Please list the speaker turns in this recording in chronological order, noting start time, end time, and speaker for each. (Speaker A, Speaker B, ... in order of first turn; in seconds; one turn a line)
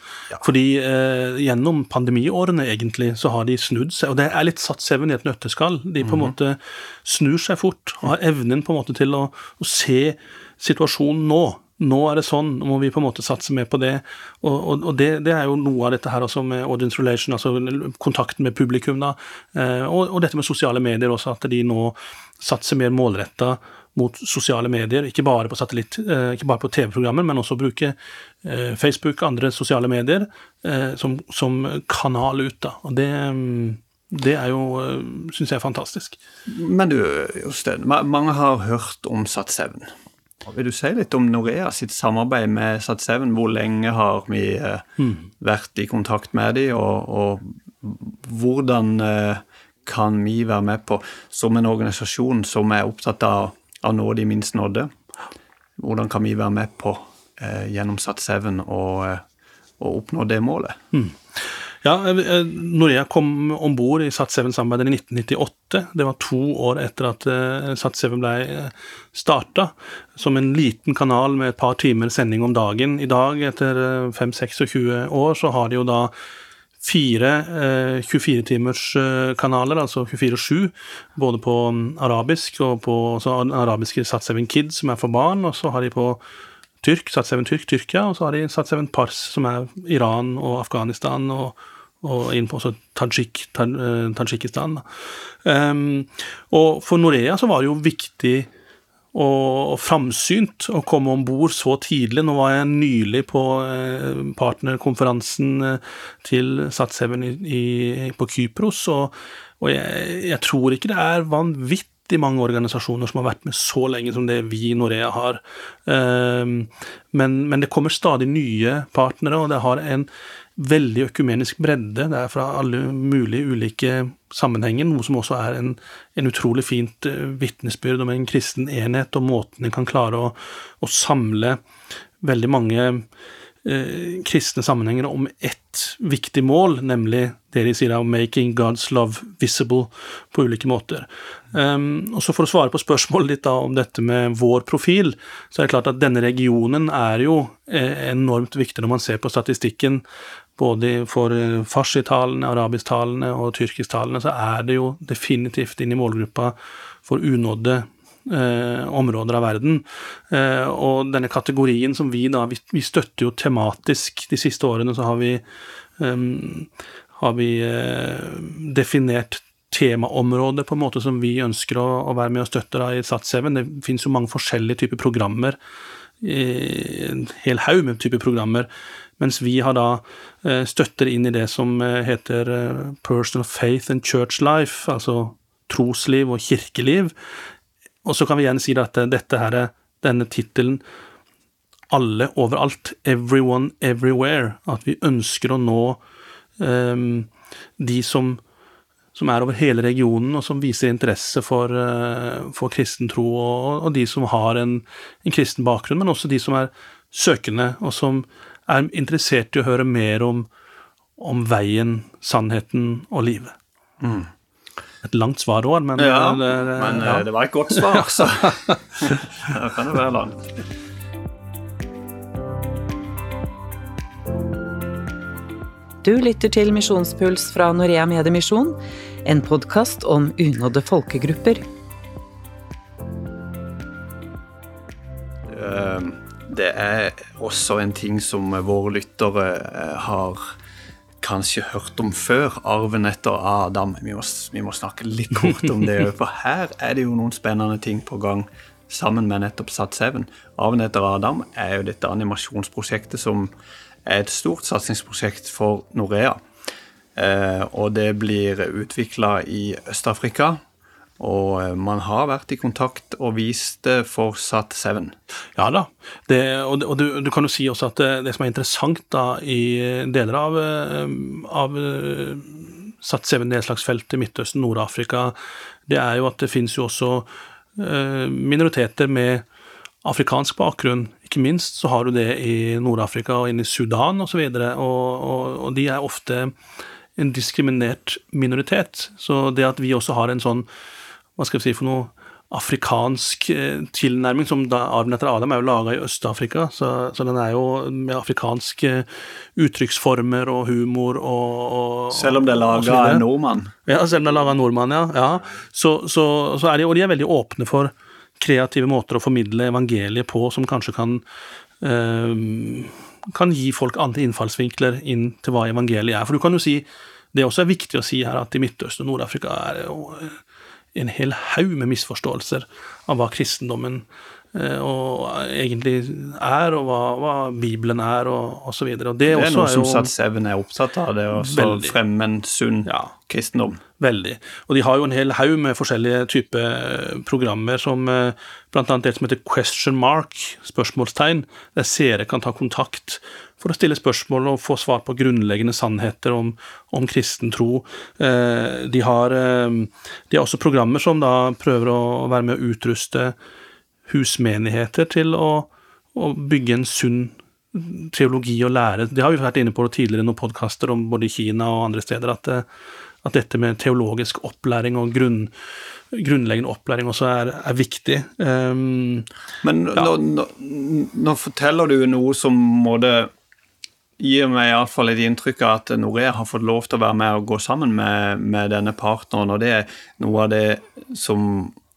Speaker A: 0.4-36.2
Speaker B: 6.0-6.3
Speaker B: 36.5-39.9
Speaker B: 40.5-44.9
Speaker B: 45.4-54.9
Speaker B: 55.8-59.2
Speaker B: 59.8-60.8
Speaker A: 60.9-76.1
Speaker A: 76.8-86.2
Speaker A: 86.8-94.8
Speaker A: 95.4-98.5
Speaker A: 99.1-131.6
Speaker A: 132.2-133.1
Speaker A: 133.6-150.0
Speaker A: 150.6-165.4
Speaker A: 166.0-175.6
Speaker A: 176.2-187.1
Speaker A: 188.0-190.8
Speaker A: 191.9-196.0
Speaker A: 196.6-198.4
Speaker A: 199.1-210.5
Speaker A: 211.2-213.6
Speaker B: 214.0-214.3
Speaker A: 215.0-219.2
Speaker B: 216.0-220.4
Speaker C: 226.0-231.6
Speaker B: 235.5-240.5
Speaker B: 241.2-253.5
Speaker B: 254.1-256.4
Speaker B: 257.1-260.6
Speaker B: 261.2-265.1
Speaker A: 265.6-275.4
Speaker A: 275.9-279.5
Speaker A: 280.0-286.5
Speaker A: 287.1-290.7
Speaker A: 291.4-303.2
Speaker B: 302.1-303.7
Speaker A: 303.9-311.2
Speaker A: 311.8-320.4
Speaker A: 320.9-330.1
Speaker B: 329.3-333.8
Speaker A: 331.4-331.9
Speaker A: 332.9-333.1
Speaker A: 334.0-353.4
Speaker A: 354.1-362.6
Speaker A: 363.2-365.5
Speaker A: 366.1-369.3
Speaker B: 369.6-373.3
Speaker B: 374.2-381.8